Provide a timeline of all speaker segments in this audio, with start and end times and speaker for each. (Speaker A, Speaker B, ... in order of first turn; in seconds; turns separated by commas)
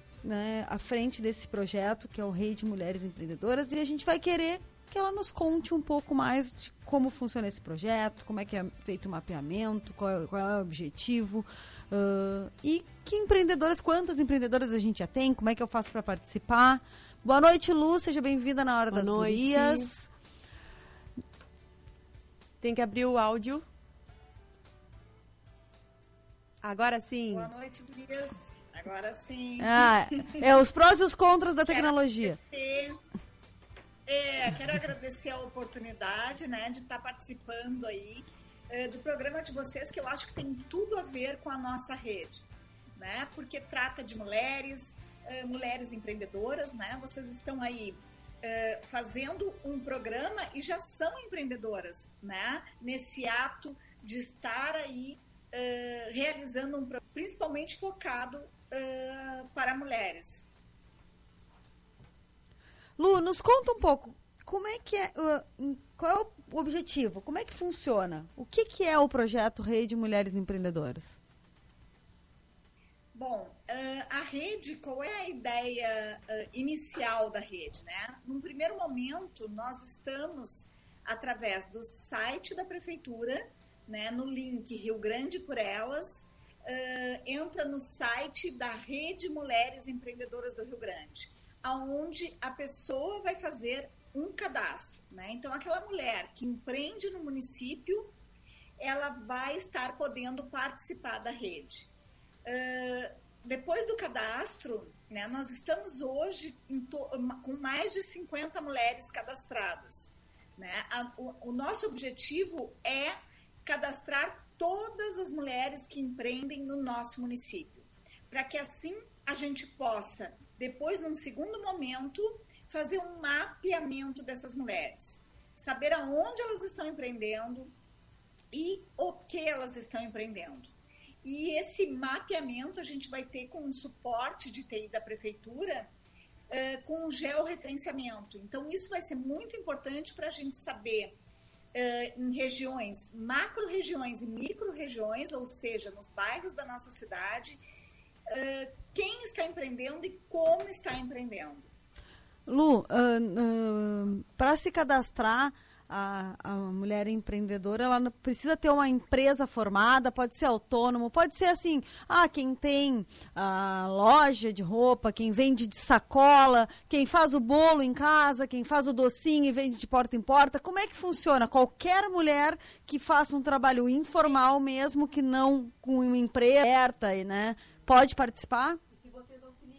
Speaker A: 0.2-20.1, Speaker B: 18.9-19.9, Speaker B: 22.6-23.6, Speaker B: 26.6-27.5, Speaker C: 27.3-29.9, Speaker A: 29.6-32.4, Speaker C: 31.7-33.0, Speaker C: 34.1-42.4, Speaker C: 43.0-60.5, Speaker A: 63.0-71.2, Speaker C: 73.1-98.1, Speaker C: 98.8-101.9, Speaker C: 102.5-127.7, Speaker C: 128.5-130.7, Speaker C: 131.2-135.9, Speaker C: 136.5-141.2, Speaker C: 141.7-147.6, Speaker C: 148.3-151.7, Speaker A: 152.5-178.8, Speaker C: 174.1-174.4